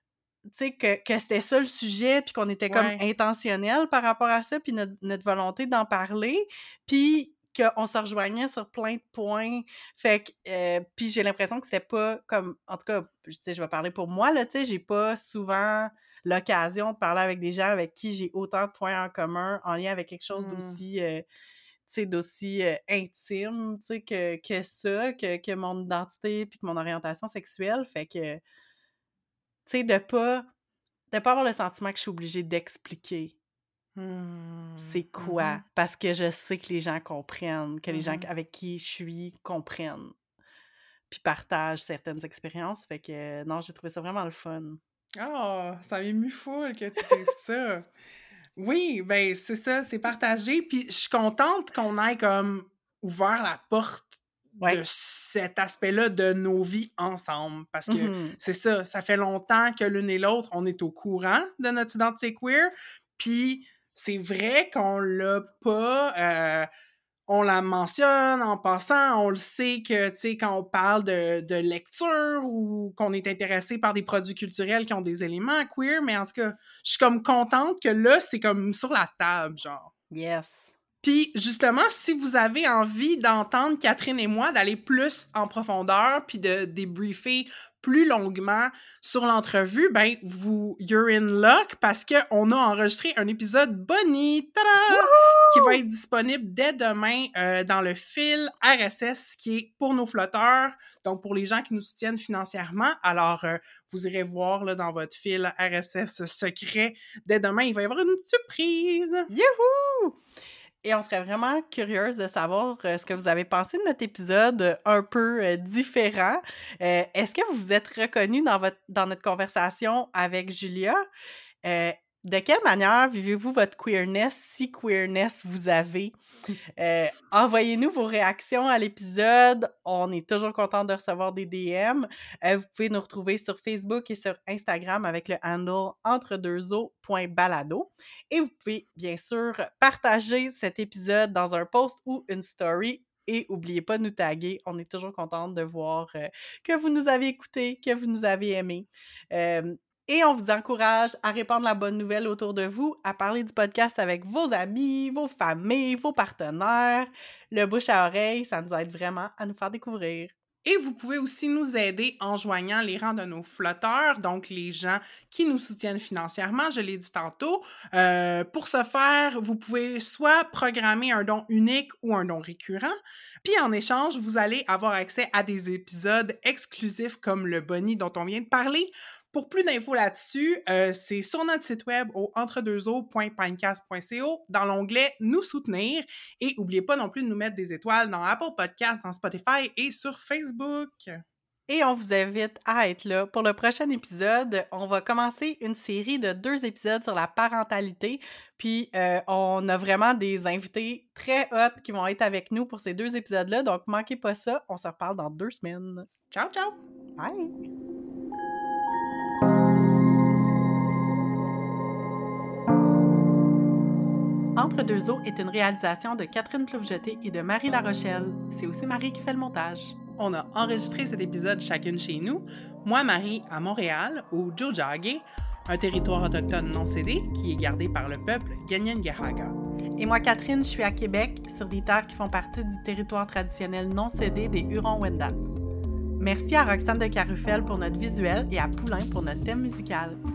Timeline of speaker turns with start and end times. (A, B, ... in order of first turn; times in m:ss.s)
0:00.5-0:21.2 A
0:02.7-0:03.0 B
0:20.3-0:20.8 B
0:21.9-0:28.4 A
0:29.6-0:30.5 A
0:31.1-0:33.4 A
0:34.0-0:35.6 B
0:34.8-0:40.1 A
0:37.9-0:38.3 B
0:41.1-0:44.8 A
0:45.2-0:47.9 B
0:48.6-1:06.7 B
0:57.9-0:58.4 A
1:07.3-1:19.9 B
1:20.1-1:20.7 A
1:21.0-1:49.3 B
1:34.9-1:35.8 A
1:49.3-1:50.2 A
1:50.8-2:01.0 A
2:01.6-2:06.1 A
2:06.8-2:40.3 A
2:40.6-3:11.2 B
3:11.7-3:26.1 A
3:26.3-3:26.8 B
3:27.2-3:27.6 A
3:34.6-3:39.9 A
3:40.2-3:49.6 B
3:50.0-3:55.4 A
3:56.2-4:00.2 A